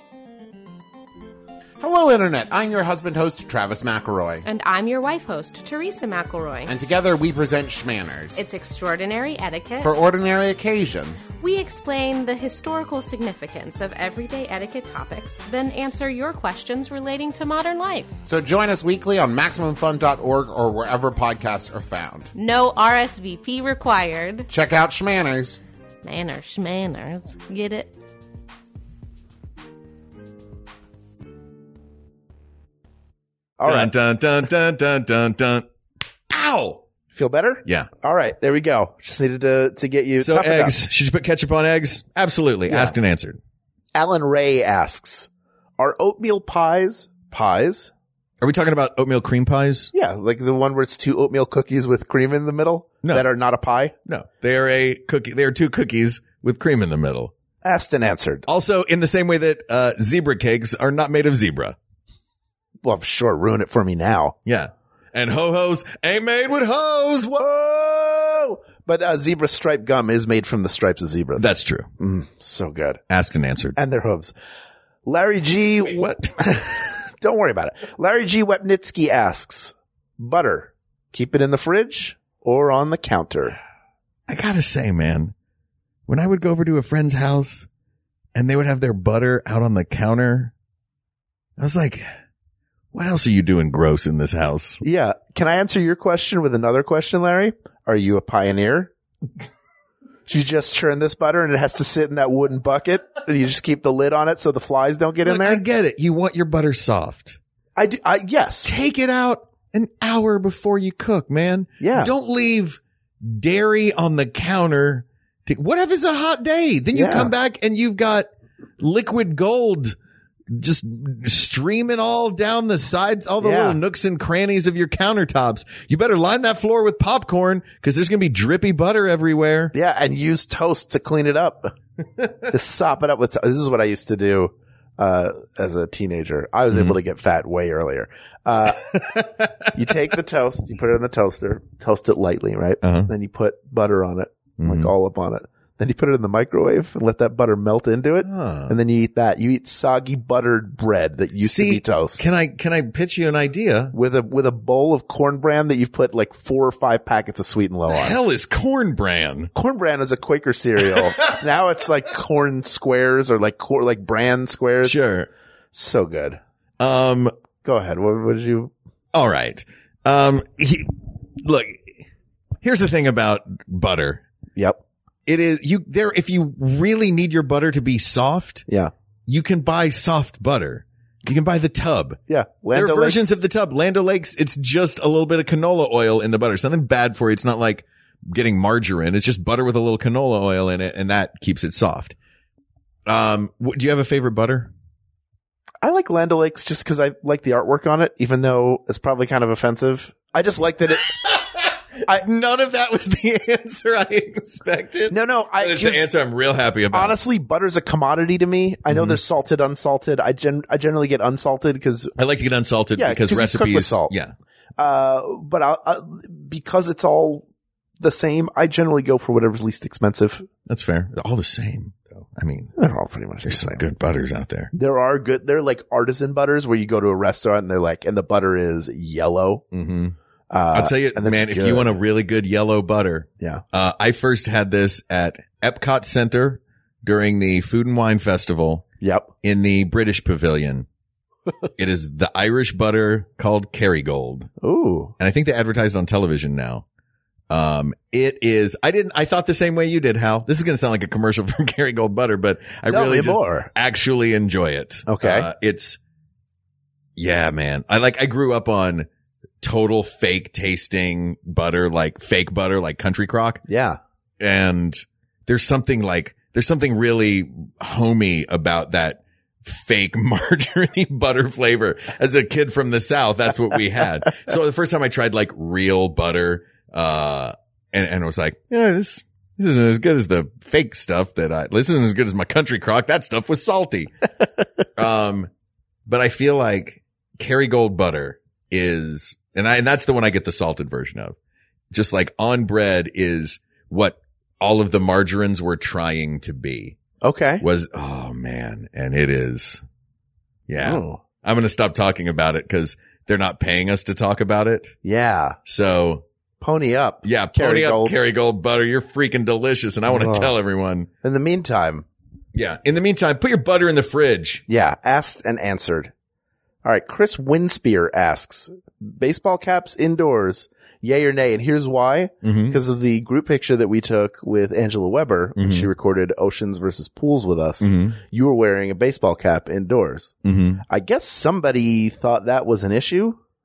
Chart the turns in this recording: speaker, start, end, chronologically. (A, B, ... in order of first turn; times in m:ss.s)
0:01.8-0:04.4 A
0:04.4-0:06.7 B
0:06.7-0:08.4 A
0:08.4-0:09.9 B
0:09.8-0:11.3 A
0:11.4-0:18.1 B
0:18.3-0:22.3 A
0:22.3-0:24.5 B
0:24.5-0:25.6 A
0:26.0-0:27.9 B
0:33.6-0:33.9 C
0:33.6-0:35.6 D
0:36.3-0:36.8 D
0:37.1-0:40.8 C
0:40.2-0:43.4 D
0:42.7-0:42.9 C
0:43.9-0:47.9 C
0:48.4-0:49.9 D
0:49.9-0:53.9 C
0:54.0-0:57.3 D
0:57.6-0:58.4 C
0:58.4-1:01.8 D
1:02.8-1:04.4 C
1:04.4-1:07.4 D
1:07.4-1:13.0 C
1:11.4-1:11.9 D
1:13.1-1:13.8 D
1:13.8-1:14.3 C
1:15.0-1:23.6 C
1:15.8-1:16.4 D
1:24.3-1:25.3 D
1:26.1-1:27.7 D
1:28.3-1:30.5 D
1:31.6-1:32.0 D
1:32.9-1:34.8 D
1:34.8-1:38.9 C
1:40.3-1:45.6 C
1:45.2-1:47.4 D
1:47.8-1:48.7 C
1:48.6-2:00.0 D
1:51.8-1:52.1 C
1:56.9-1:57.3 C
2:00.5-2:09.7 D
2:03.4-2:03.8 C
2:09.7-2:11.7 C
2:12.5-2:18.9 C
2:18.9-2:19.6 D
2:19.7-2:32.2 C
2:22.8-2:23.1 D
2:24.6-2:24.9 D
2:28.2-2:28.8 D
2:31.4-2:33.9 D
2:33.9-2:38.2 C
2:37.9-2:39.5 D
2:39.5-2:45.0 C
2:44.8-2:45.3 D
2:45.7-2:46.4 C
2:46.8-2:47.3 D
2:47.6-2:48.7 C
2:49.1-2:52.0 D
2:52.6-2:54.2 D
2:55.3-2:58.6 D
2:59.3-3:02.2 D
3:02.3-3:03.4 C
3:02.7-3:12.2 D
3:13.0-3:14.7 D
3:15.8-3:21.1 C
3:21.2-3:27.2 D
3:25.1-3:26.1 C
3:26.9-3:32.1 C
3:28.9-3:29.2 D
3:32.2-3:34.3 D
3:33.0-3:34.1 C
3:34.8-3:37.4 C
3:38.0-3:40.5 C
3:40.7-3:42.7 D
3:42.8-3:43.8 C
3:43.4-3:44.7 D
3:44.7-3:49.6 C
3:49.7-3:50.1 D
3:50.5-3:52.0 C
3:50.7-3:58.8 D
3:59.0-3:59.3 C
3:59.4-4:00.9 D
4:01.8-4:04.5 D
4:04.6-4:05.1 C
4:05.2-4:06.8 D
4:07.5-4:16.0 D
4:12.9-4:13.7 C
4:15.1-4:15.5 C
4:17.2-4:19.1 D
4:19.6-4:23.6 D
4:23.7-4:24.0 C
4:24.4-4:44.1 D
4:45.0-4:45.5 D
4:46.1-4:51.4 D
4:51.9-4:57.0 D
4:57.2-4:57.6 C
4:57.6-4:59.8 D
5:00.7-5:04.9 D
5:00.8-5:01.2 C
5:05.0-5:05.6 C
5:05.6-5:06.2 D
5:06.6-5:08.1 C
5:07.2-5:11.1 D
5:10.1-5:10.5 C
5:11.2-5:12.0 C
5:12.5-5:14.6 D
5:14.7-5:16.1 C
5:16.8-5:30.3 C
5:22.4-5:22.8 D
5:25.6-5:25.9 D
5:27.8-5:28.2 D
5:30.4-5:30.8 D
5:30.9-5:33.4 C